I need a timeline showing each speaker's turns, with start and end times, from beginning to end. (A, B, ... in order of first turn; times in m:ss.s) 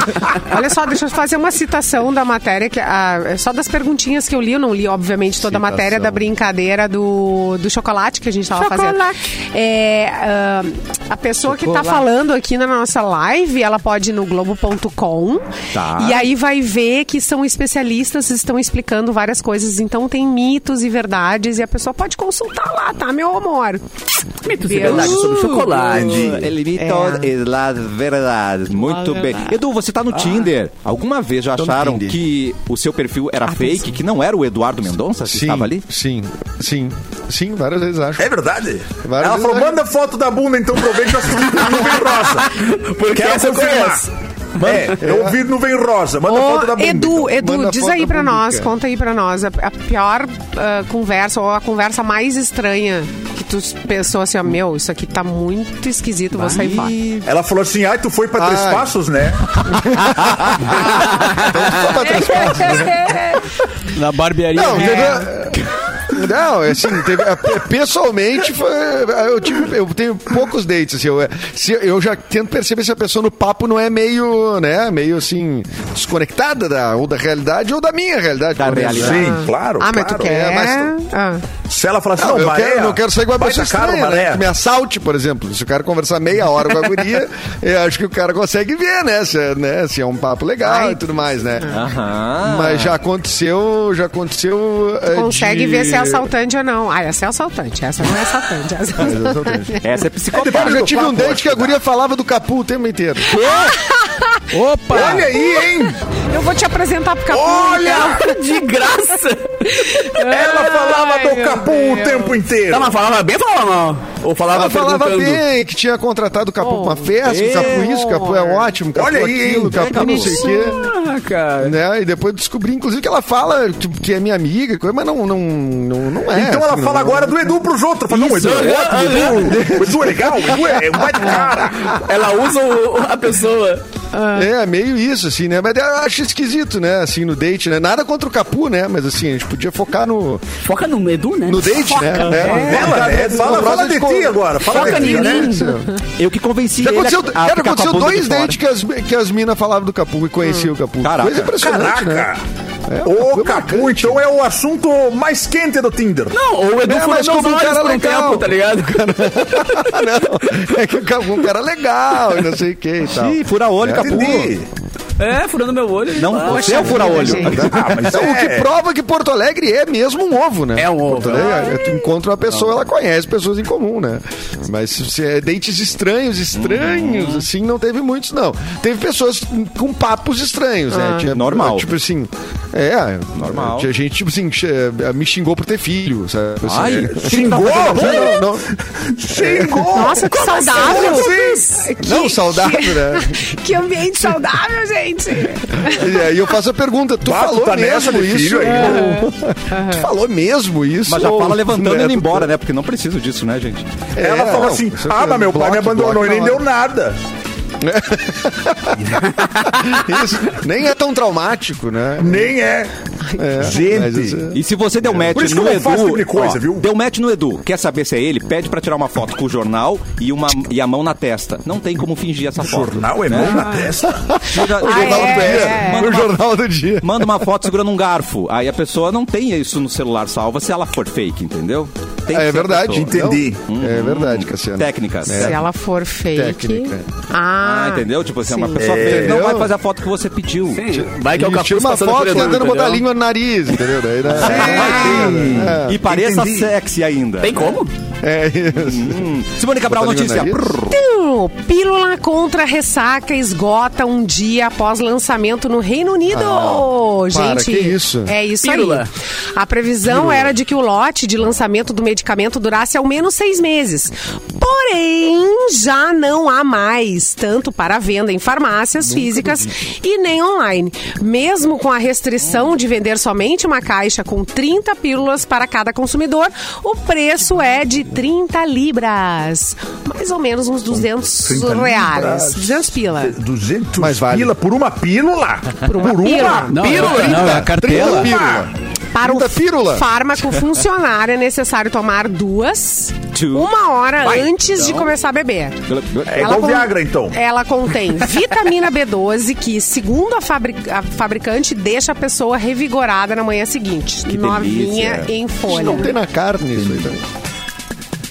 0:00.2-0:23.8 A
0:05.4-0:06.3 B
0:15.7-0:16.3 C
0:24.4-0:26.5 D
0:24.5-0:27.3 A
0:24.8-0:25.2 C
0:25.9-0:35.8 C
0:26.0-0:26.4 E
0:28.8-0:29.6 A
0:31.6-0:32.2 B
0:33.5-0:34.0 A
0:35.3-0:38.3 B
0:38.2-0:44.1 E
0:39.0-0:39.8 B
0:41.9-0:44.1 D
0:44.6-0:47.3 E
0:44.6-0:44.9 C
0:45.0-0:45.4 B
0:46.2-0:57.0 A
0:47.3-0:48.7 B
0:56.4-0:57.3 C
0:57.2-0:59.5 E
0:58.4-0:58.9 B
0:59.6-1:03.1 B
1:00.2-1:00.5 C
1:01.9-1:03.4 A
1:03.9-1:05.3 F
1:04.5-1:19.3 B
1:04.9-1:05.1 A
1:18.6-1:19.2 C
1:18.8-1:20.3 E
1:19.2-1:21.4 A
1:20.2-1:20.9 B
1:21.7-1:24.4 E
1:22.2-1:31.8 B
1:30.6-1:31.8 A
1:31.7-1:32.9 C
1:32.4-1:36.3 B
1:35.1-1:40.0 A
1:39.0-1:39.8 B
1:39.8-1:41.3 C
1:40.3-1:41.7 E
1:40.4-1:43.3 B
1:43.3-1:43.8 D
1:43.3-1:44.4 A
1:44.5-1:45.3 F
1:44.9-1:46.0 E
1:45.1-1:48.5 A
1:47.3-1:48.2 E
1:47.8-1:50.3 D
1:49.8-1:52.4 A
1:50.3-1:53.0 E
1:52.7-1:55.4 D
1:54.5-2:00.8 B
1:56.6-1:58.8 A
1:57.2-1:58.0 C
1:58.9-1:59.9 E
1:59.7-2:00.5 C
2:00.0-2:00.8 A
2:00.4-2:01.8 D
2:01.6-2:07.6 B
2:06.3-2:12.0 E
2:08.1-2:09.7 D
2:09.5-2:10.6 B
2:11.9-2:13.8 D
2:14.1-2:14.5 A
2:14.3-2:20.5 B
2:20.6-2:22.9 D
2:21.5-2:25.9 B
2:22.4-2:22.8 A
2:22.4-2:25.5 E
2:24.7-2:25.8 D
2:26.2-2:28.6 C
2:26.8-2:32.3 B
2:30.4-2:30.7 A
2:31.0-2:31.5 C
2:31.6-2:32.4 E
2:32.9-2:34.2 B
2:33.0-2:36.4 E
2:36.3-2:40.2 D
2:36.8-2:44.6 B
2:43.1-2:44.5 C
2:44.0-2:44.7 E
2:45.2-2:47.4 D
2:46.2-2:47.9 C
2:46.4-2:47.6 A
2:47.3-3:08.7 B
2:47.6-2:48.7 E
2:50.8-2:52.1 D
2:56.6-2:57.5 C
3:00.9-3:01.3 A
3:01.3-3:01.9 C
3:03.4-3:03.9 C
3:06.6-3:08.0 C
3:07.1-3:08.4 E
3:08.1-3:08.4 A
3:09.1-3:11.8 E
3:09.3-3:10.2 B
3:09.9-3:16.4 A
3:10.8-3:11.2 B
3:12.0-3:13.4 B
3:15.8-3:22.5 B
3:17.2-3:19.1 E
3:18.6-3:20.1 A
3:21.1-3:24.1 C
3:24.2-3:26.6 B
3:24.2-3:27.2 E
3:27.8-3:32.5 B
3:32.2-3:32.9 E
3:33.4-3:35.3 B
3:33.6-3:34.5 E
3:34.5-3:43.8 C
3:35.2-3:36.9 E
3:42.6-3:44.4 E
3:44.3-3:47.6 B
3:44.4-3:46.4 C
3:44.7-3:46.2 A
3:47.0-3:53.1 C
3:52.3-3:55.6 B
3:52.9-3:53.7 E
3:53.7-3:55.6 C
3:55.3-3:58.9 A
3:56.3-3:57.1 B
3:57.6-4:00.9 C
3:58.8-3:59.5 E
3:58.9-3:59.7 B
4:00.7-4:03.0 D
4:00.9-4:06.0 B
4:04.4-4:07.7 C
4:04.6-4:06.7 E
4:07.4-4:07.9 D
4:08.2-4:09.2 B
4:08.8-4:11.0 C
4:09.9-4:10.8 B
4:10.9-4:43.4 A
4:16.3-4:18.4 B
4:18.6-4:19.1 D
4:29.1-4:29.6 B
4:41.4-4:42.6 E
4:43.1-4:48.7 E
4:44.0-4:44.5 B
4:45.8-4:47.3 A
4:46.7-4:48.3 F
4:47.2-4:50.1 B
4:49.1-5:06.2 A
4:53.3-4:55.1 C
4:55.9-4:56.6 C
4:56.3-4:57.4 E
5:04.3-5:05.3 C
5:05.7-5:07.2 B